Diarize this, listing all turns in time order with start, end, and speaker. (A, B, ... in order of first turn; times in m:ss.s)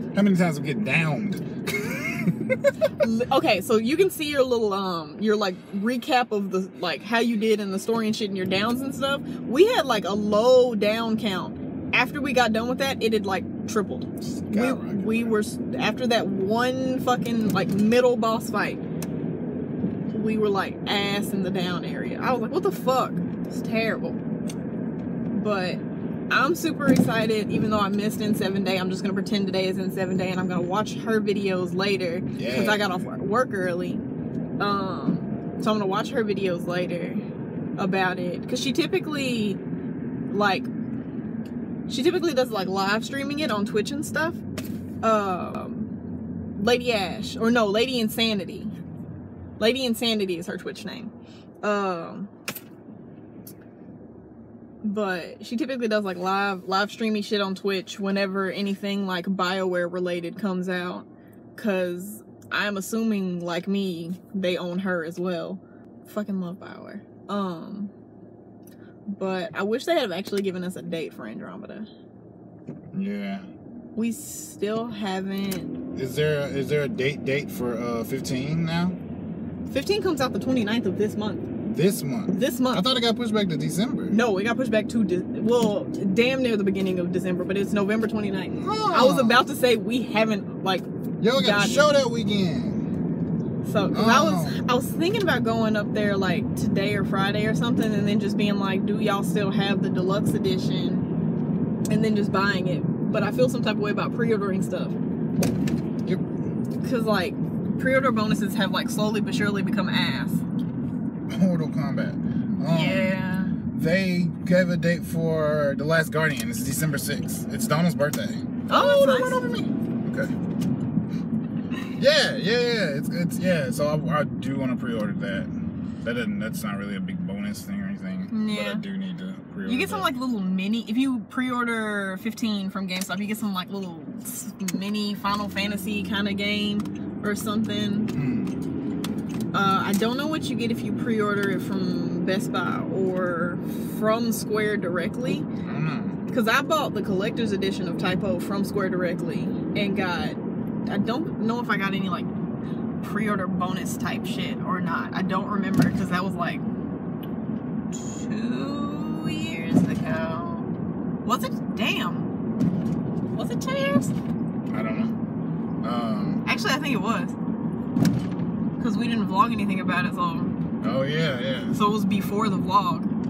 0:00.1-0:03.0 A
0:02.9-0:18.8 B
0:14.2-0:15.4 A
0:20.1-0:24.2 B
0:25.3-0:34.0 B
0:32.4-0:33.1 A
0:34.6-0:39.6 B
0:40.3-0:40.7 B
0:41.9-0:44.4 B
0:45.0-0:45.9 B
0:46.6-0:48.8 B
0:49.6-0:52.3 B
0:54.8-1:07.9 B
1:09.1-1:11.9 B
1:12.9-1:13.5 A
1:14.0-1:15.8 B
1:16.0-1:19.0 A
1:19.7-1:21.5 B
1:21.6-1:24.2 A
1:22.3-1:22.8 B
1:24.1-1:31.9 B
1:28.5-1:29.5 A
1:31.2-1:32.9 A
1:33.6-1:41.1 B
1:33.9-1:34.6 A
1:41.9-1:45.0 B
1:46.8-1:50.4 B
1:51.3-1:53.2 A
1:52.6-1:53.6 B
1:53.7-2:00.3 A
1:58.7-1:59.5 B
2:02.0-2:10.1 A
2:08.3-2:08.8 B
2:09.7-2:18.1 B
2:18.1-2:18.6 A
2:19.5-2:25.5 B
2:25.6-2:26.3 A
2:26.3-2:32.3 B
2:33.0-2:36.6 B
2:37.9-2:42.3 B
2:43.3-2:44.1 B
2:44.7-2:45.2 A
2:45.8-2:46.4 A
2:46.4-2:47.4 B
2:48.8-2:50.6 B
2:50.8-2:51.8 A
2:51.7-2:53.1 B